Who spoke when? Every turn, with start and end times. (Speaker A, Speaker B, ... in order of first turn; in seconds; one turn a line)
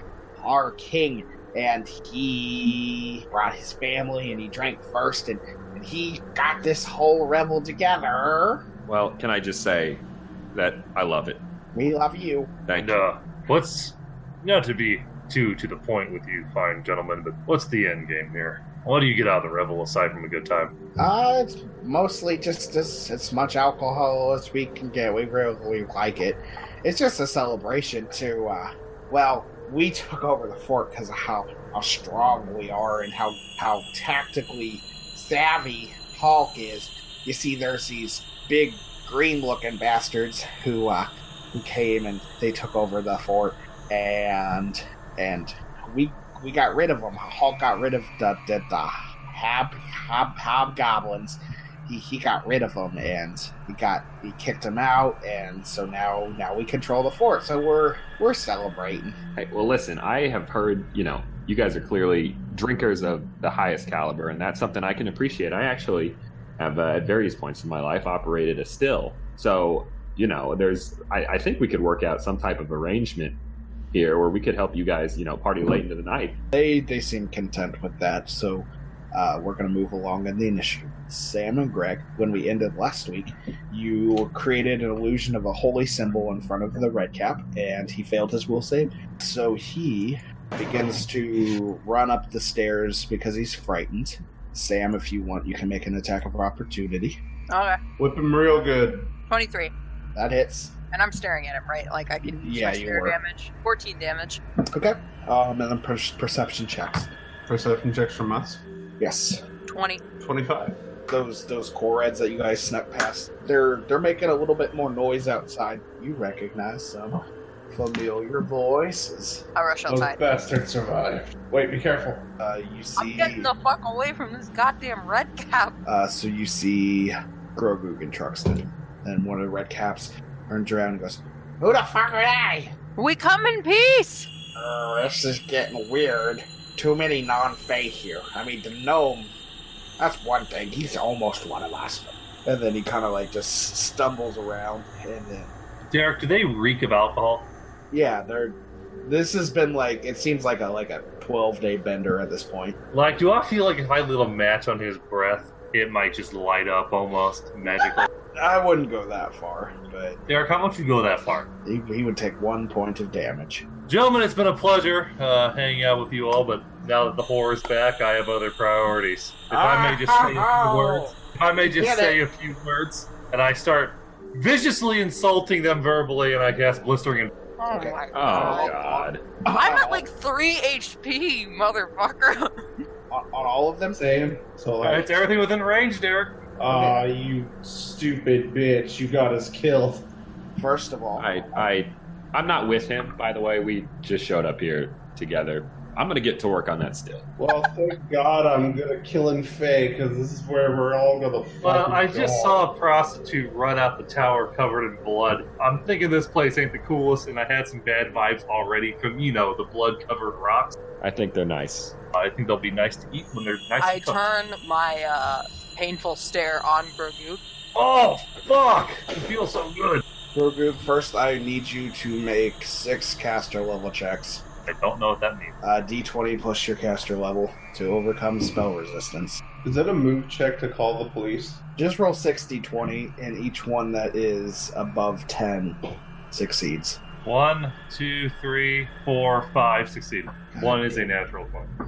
Speaker A: 0.4-8.6
Speaker B: 8.9-11.4
Speaker A: 11.7-12.5
Speaker B: 12.7-13.0
Speaker C: 12.8-20.7
Speaker A: 21.0-59.2
Speaker B: 59.4-73.4
Speaker B: 73.9-76.4
Speaker A: 76.5-97.2
Speaker D: 97.5-97.8
Speaker E: 98.0-99.1
Speaker D: 99.3-99.7
Speaker A: 100.1-100.7
Speaker D: 100.9-104.4
Speaker A: 102.2-103.2
Speaker A: 104.7-107.1
Speaker E: 107.5-108.6
Speaker A: 109.0-109.4
Speaker D: 109.7-110.0
Speaker E: 110.2-110.8
Speaker A: 111.1-117.2
Speaker A: 117.7-119.4
Speaker D: 119.5-120.2
Speaker E: 119.9-122.2
Speaker A: 122.4-123.5
Speaker D: 123.0-125.7
Speaker A: 125.8-132.7
Speaker D: 133.0-134.3
Speaker A: 134.6-139.3
Speaker A: 140.0-145.5
Speaker C: 145.8-147.5
Speaker A: 147.9-152.8
Speaker C: 152.9-158.1
Speaker A: 157.9-160.2
Speaker C: 160.3-161.5
Speaker A: 161.6-163.6
Speaker C: 163.9-177.3
Speaker A: 169.5-172.2
Speaker D: 177.6-178.7
Speaker A: 177.7-180.1
Speaker B: 178.1-179.2
Speaker D: 179.5-182.5
Speaker A: 183.1-184.1
Speaker E: 184.0-185.2
Speaker C: 184.8-186.4
Speaker E: 186.6-190.1
Speaker A: 186.7-187.1
Speaker A: 190.6-191.7
Speaker B: 191.2-197.2
Speaker E: 197.4-202.7
Speaker C: 201.6-210.8
Speaker B: 211.0-211.9
Speaker C: 212.1-214.2
Speaker D: 213.8-217.4
Speaker C: 217.7-220.0
Speaker A: 220.3-224.4
Speaker C: 224.7-225.5
Speaker A: 225.6-229.4
Speaker E: 229.6-231.6
Speaker A: 231.8-235.8
Speaker A: 236.3-237.0
Speaker C: 237.2-241.7
Speaker A: 240.5-241.1